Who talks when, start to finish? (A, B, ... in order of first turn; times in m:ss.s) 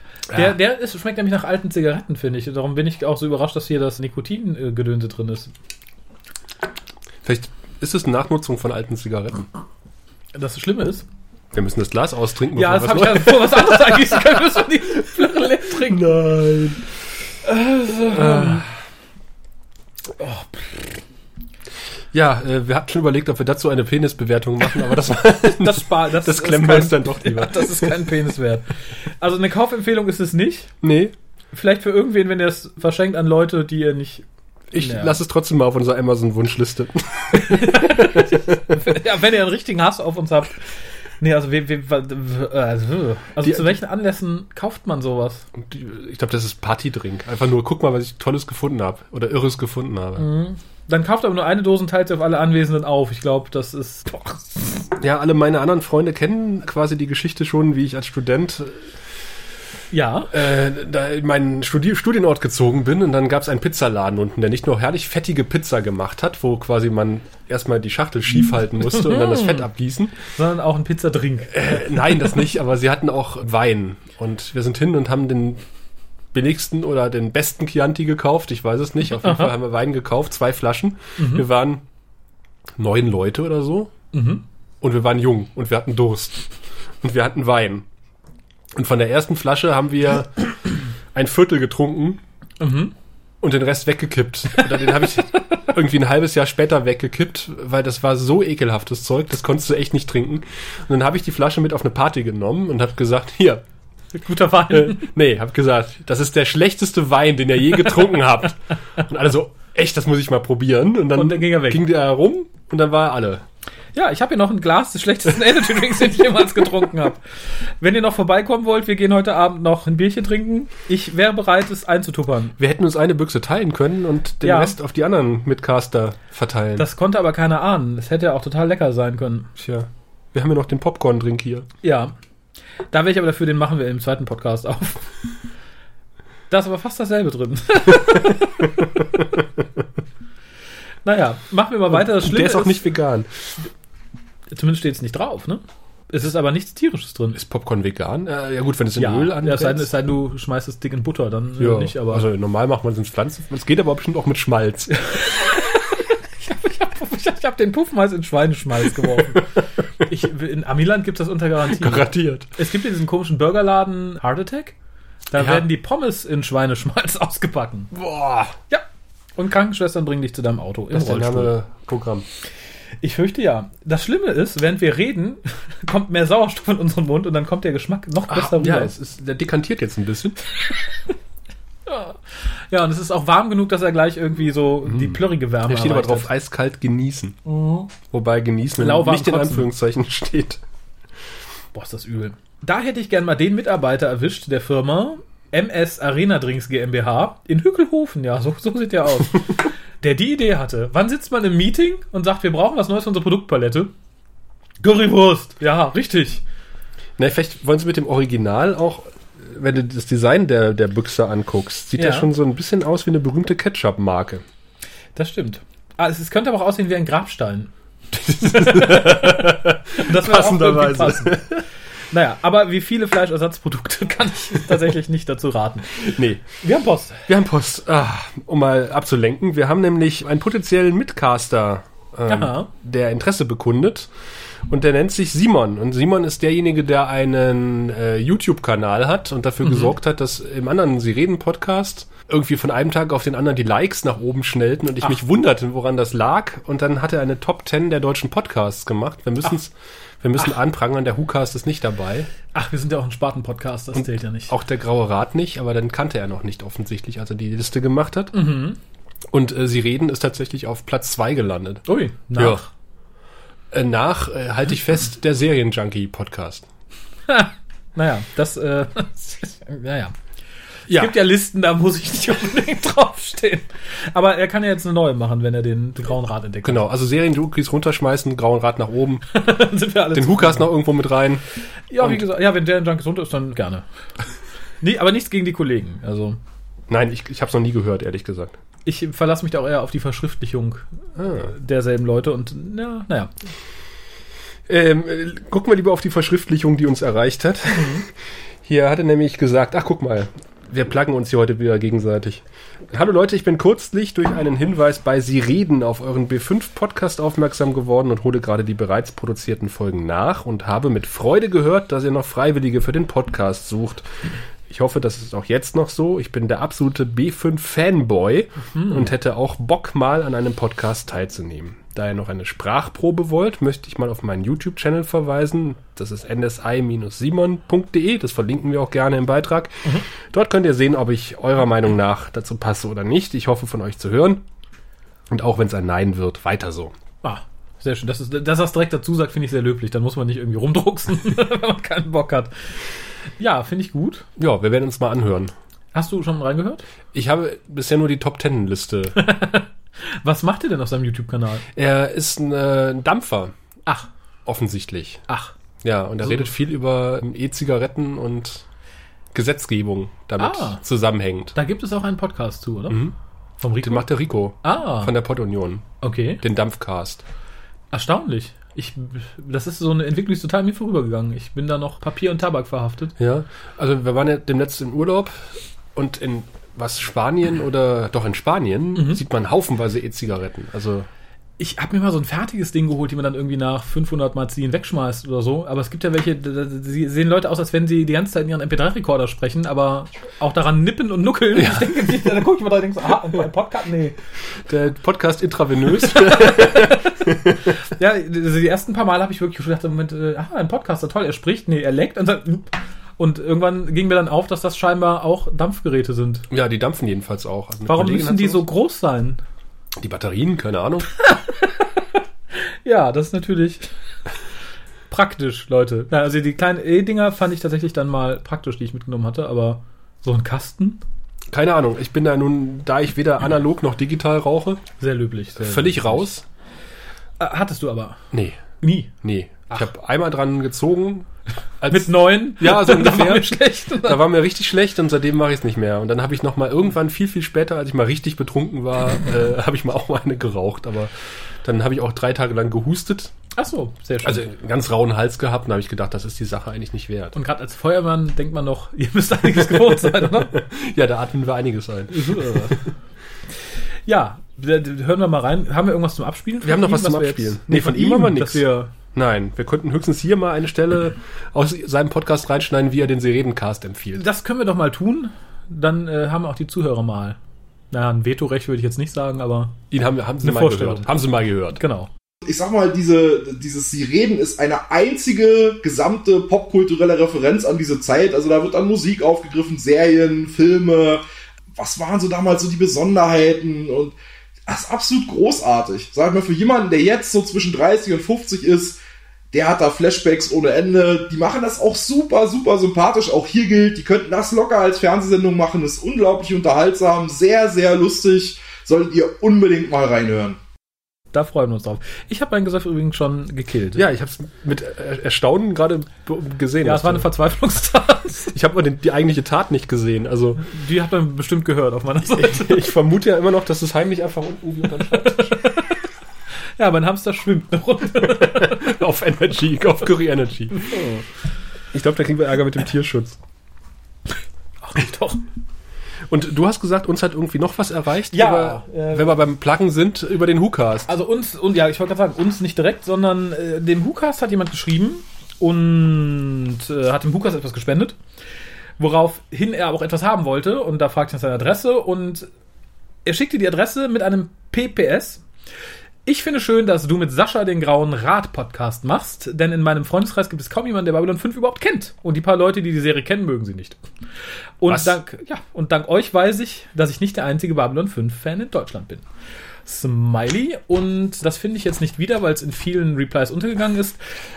0:00.3-0:05.5 A
0:07.2-0:09.5 B
0:10.3-0:11.0 A
0:11.5-0:14.2 B
0:12.5-0:16.2 A
0:15.7-0:16.8 B
0:17.4-0:18.7 A
0:18.0-0:18.7 B
0:20.2-0:21.0 A
0:22.1-0:28.2 B
0:25.4-0:30.7 A
0:30.8-0:31.1 B
0:31.5-0:34.2 A
0:34.7-0:38.8 B
0:34.8-0:35.2 A
0:37.3-0:40.6 A
0:41.2-0:45.5 A
0:43.4-0:43.8 B
0:45.6-0:50.3 B
0:50.2-0:54.9 A
0:55.0-0:58.9 B
0:59.9-1:00.4 A
1:00.3-1:10.2 B
1:08.9-1:09.7 A
1:10.2-1:12.3 A
1:11.5-1:15.6 B
1:16.3-1:21.8 B
1:19.2-1:19.5 A
1:21.2-1:21.4 A
1:22.8-1:23.9 B
1:24.1-1:24.4 A
1:24.8-1:26.4 B
1:27.0-1:27.8 B
1:28.7-1:30.4 B
1:31.1-1:32.2 B
1:32.6-1:32.9 A
1:33.4-1:43.6 B
1:34.6-1:35.1 A
1:44.1-1:45.1 A
1:44.7-1:53.4 B
1:51.1-1:51.8 A
1:53.9-1:57.2 A
1:57.8-2:02.6 A
2:02.6-2:06.9 B
2:04.4-2:04.8 A
2:06.8-2:09.5 A
2:09.6-2:11.7 B
2:11.8-2:12.1 A
2:12.9-2:15.0 A
2:16.5-2:18.8 A
2:21.0-2:22.9 A
2:21.9-2:23.3 B
2:24.5-2:27.4 A
2:27.3-2:29.9 B
2:28.9-2:32.3 A
2:31.6-2:35.0 B
2:34.9-2:39.5 A
2:39.0-2:39.6 B
2:40.0-2:44.7 A
2:41.7-2:42.5 B
2:45.3-2:47.9 A
2:45.3-2:45.7 B
2:47.9-2:48.5 B
2:49.4-2:51.5 A
2:50.9-2:52.2 B
2:53.0-2:58.9 A
2:58.3-3:00.4 B
3:01.9-3:02.2 A
3:02.7-3:06.3 A
3:04.8-3:07.4 B
3:07.4-3:07.9 A
3:08.0-3:10.6 B
3:08.8-3:09.7 A
3:11.7-3:23.9 A
3:24.8-3:26.4 A
3:27.2-3:34.4 B
3:32.0-3:32.3 A
3:35.2-3:41.4 A
3:38.1-3:41.6 B
3:42.1-3:45.9 A
3:46.0-3:46.4 B
3:46.6-3:47.2 A
3:47.3-3:54.1 B
3:52.3-3:52.7 A
3:54.7-4:12.3 B
3:59.6-3:59.9 A
4:12.5-4:14.5 A
4:13.9-4:18.3 B
4:18.3-4:18.8 A
4:19.3-4:22.6 B
4:21.9-4:22.7 A
4:23.7-4:26.6 B
4:27.3-4:30.1 A
4:30.9-4:31.1 B
4:30.9-4:36.9 A
4:36.6-4:39.3 B
4:39.3-4:40.7 A
4:40.1-4:41.4 B
4:41.9-4:43.8 A
4:42.0-4:42.2 B
4:44.8-4:46.4 A
4:46.9-4:48.5 B
4:48.8-4:53.3 A
4:51.2-4:51.5 B
4:54.7-4:58.1 B
4:57.7-4:58.0 A
4:58.6-5:14.2 B
5:14.7-5:34.4 B
5:18.7-5:19.1 A
5:35.3-5:36.9 B
5:37.2-5:42.5 A
5:43.4-5:44.2 A
5:44.4-5:45.5 B
5:45.9-5:46.8 A
5:47.1-5:49.2 B
5:49.2-5:49.7 A
5:50.2-5:51.6 A
5:51.7-5:53.5 B
5:54.4-5:55.2 B
5:55.3-5:55.5 A
5:55.8-5:58.6 B
5:59.3-6:01.6 B
6:00.4-6:00.8 A
6:01.5-6:03.0 A
6:02.9-6:03.1 B
6:03.6-6:04.1 A
6:03.8-6:05.9 B
6:04.6-6:05.1 A
6:06.0-6:06.4 A
6:06.4-6:07.2 B
6:07.9-6:13.1 A
6:13.2-6:21.1 B
6:18.9-6:19.2 A
6:21.6-6:34.1 A
6:31.5-6:32.3 B
6:34.7-6:37.7 B
6:36.0-6:46.5 A
6:46.5-6:48.6 B
6:47.9-6:49.4 A
6:50.0-6:51.1 B
6:51.3-6:51.7 A
6:52.8-6:53.9 A
6:55.1-7:01.0 A
7:01.5-7:04.8 B
7:05.0-7:06.2 A
7:05.6-7:06.4 B
7:07.4-7:08.2 A
7:08.3-7:08.6 B
7:08.8-7:09.1 A
7:09.2-7:11.3 B
7:11.8-7:21.1 B
7:11.9-7:14.2 A
7:21.6-7:23.3 B
7:23.6-7:24.5 A
7:24.2-7:27.4 B
7:27.3-7:30.6 A
7:29.6-7:32.8 B
7:32.1-7:32.8 A
7:34.1-7:38.9 A
7:36.6-7:44.2 B
7:44.1-7:47.4 A
7:47.9-7:49.8 A
7:49.9-7:51.8 B
7:50.4-7:51.2 A
7:51.7-7:52.1 A
7:52.4-8:01.2 C
8:01.7-8:04.2 C
8:04.7-8:09.0 C
8:09.5-8:20.6 C
8:21.3-8:24.0 A
8:23.9-8:27.3 B
8:26.8-8:28.5 A
8:28.5-8:30.6 B
8:30.6-8:32.9 A
8:32.3-8:35.6 B
8:35.1-8:35.9 A
8:36.8-8:38.9 A
8:38.2-8:41.0 B
8:40.7-8:41.2 A
8:41.9-8:43.4 B
8:44.8-8:45.4 A
8:46.3-8:51.1 B
8:48.3-8:49.4 A
8:51.1-8:58.2 A
8:59.0-9:02.5 A
9:03.2-9:05.4 A
9:06.2-9:14.0 A
9:14.8-9:19.2 A
9:14.9-9:15.2 B
9:19.8-9:24.2 A